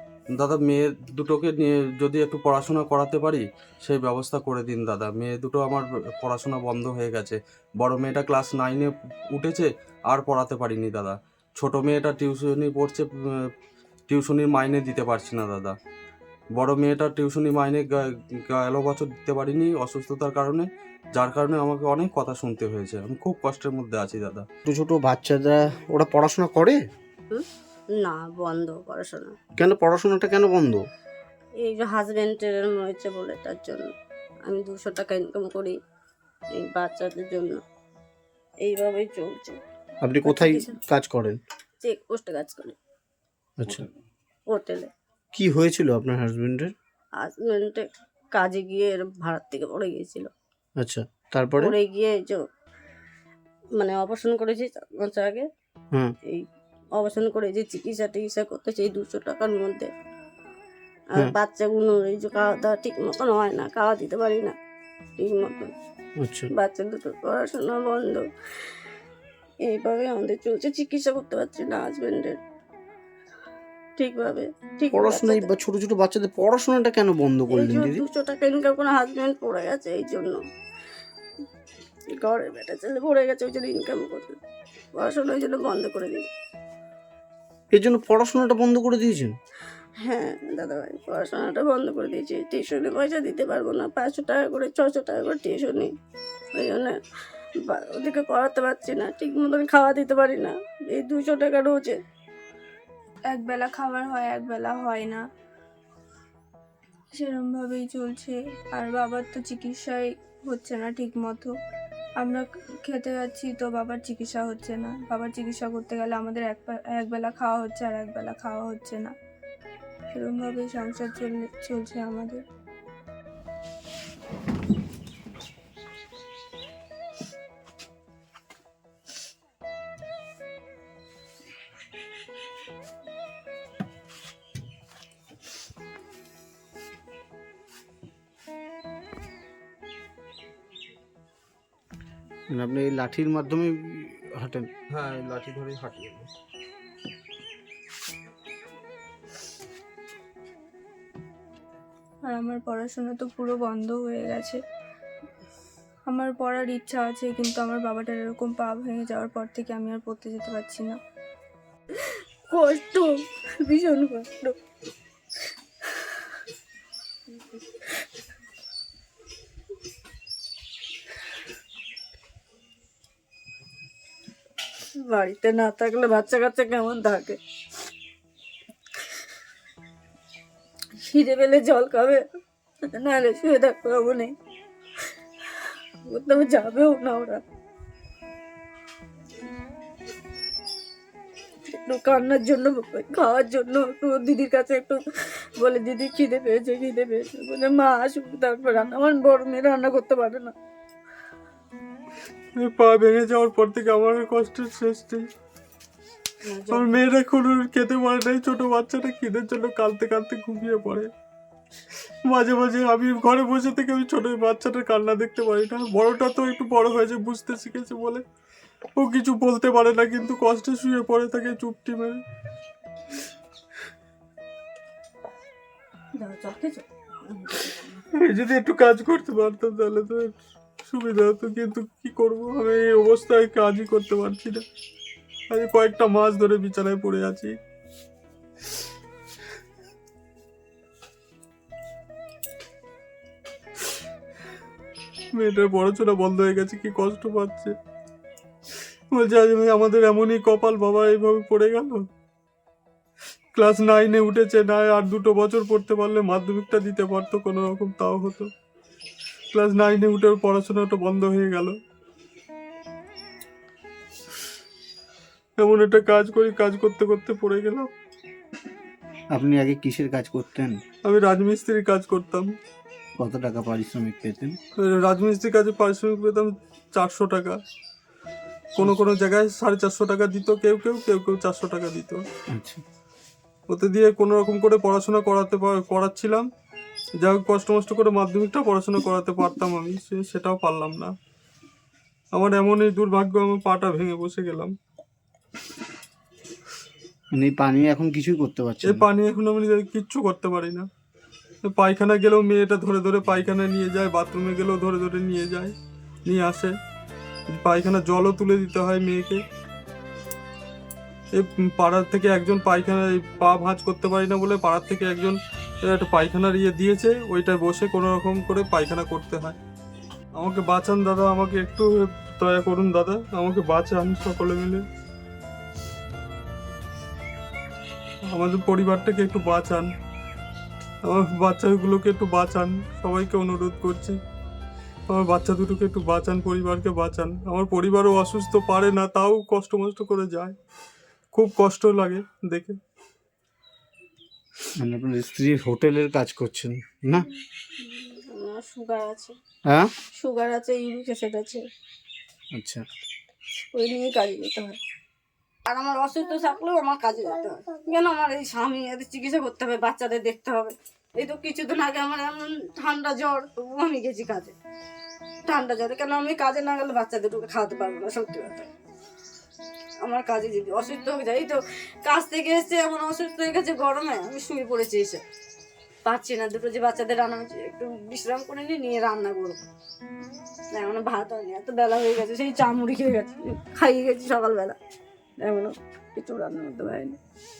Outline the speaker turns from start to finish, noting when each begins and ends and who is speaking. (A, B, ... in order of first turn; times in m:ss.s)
0:00.3-0:13.5 A
0:14.1-0:15.8 A
0:16.6-0:24.5 A
0:24.7-0:26.8 B
0:28.0-0:29.3 C
0:29.6-0:30.8 B
0:31.6-0:33.9 C
0:34.5-0:35.8 C
0:36.6-0:37.6 C
0:38.6-0:39.6 C
0:40.0-0:41.4 B
0:40.2-0:40.8 C
0:41.8-0:42.8 C
0:43.6-0:43.9 B
0:44.5-0:44.9 C
0:45.3-0:46.7 B
0:47.2-0:50.3 C
0:50.8-0:51.8 B
0:51.6-0:52.4 C
0:53.8-0:55.5 C
0:57.0-0:59.9 C
1:01.2-1:04.6 C
1:05.2-1:05.7 C
1:06.2-1:06.5 B
1:06.6-1:08.3 C
1:09.6-1:12.4 C
1:14.0-1:15.5 C
1:14.9-1:18.0 B
1:17.5-1:20.4 C
1:22.2-1:24.4 C
1:24.9-1:26.2 C
1:27.7-1:29.3 B
1:30.0-1:35.9 C
1:36.6-1:37.0 C
1:37.7-1:42.0 C
1:43.3-1:45.2 D
1:47.1-1:51.5 D
1:52.2-1:59.1 D
2:00.1-2:02.4 D
2:22.5-2:24.7 B
2:24.9-2:26.3 A
2:32.2-2:34.6 D
2:36.1-2:41.0 D
2:42.5-2:44.6 C
2:55.0-2:57.4 C
3:01.0-3:02.2 C
3:02.9-3:04.3 C
3:06.1-3:07.4 C
3:11.7-3:20.5 C
3:22.6-3:25.3 E
3:26.4-3:27.0 C
3:26.7-3:31.1 E
3:32.2-3:38.2 E
3:39.0-3:42.2 E
3:46.2-3:48.0 C
3:48.1-3:54.6 E
3:55.5-3:57.6 E
4:05.3-4:07.8 E
4:09.1-4:12.0 E
4:13.5-4:18.5 E
4:19.5-4:21.8 E
4:25.6-4:27.9 E
4:29.3-4:30.8 B
4:31.0-4:32.5 E
4:33.2-4:34.6 B
4:34.8-4:37.6 E
4:38.8-4:42.2 E
4:42.5-4:42.8 B
4:43.7-4:46.5 E
4:47.2-4:51.1 E
4:52.3-4:54.7 E
4:57.3-4:59.1 B
4:58.8-5:00.9 E
5:01.6-5:06.7 E
5:07.5-5:09.4 E
5:11.3-5:19.6 E
5:20.4-5:24.8 E
5:28.3-5:29.9 E
5:31.0-5:34.2 E
5:35.1-5:40.6 E
5:41.3-5:42.8 E
5:44.8-5:47.3 B
5:47.8-5:49.4 C
5:49.7-5:49.9 B
5:50.2-5:51.6 C
5:52.6-5:52.8 B
5:53.7-5:54.8 C
5:55.7-6:04.6 C
6:05.4-6:08.7 C
6:10.0-6:15.2 C
6:16.0-6:19.6 C
6:20.7-6:24.8 C
6:25.4-6:27.2 C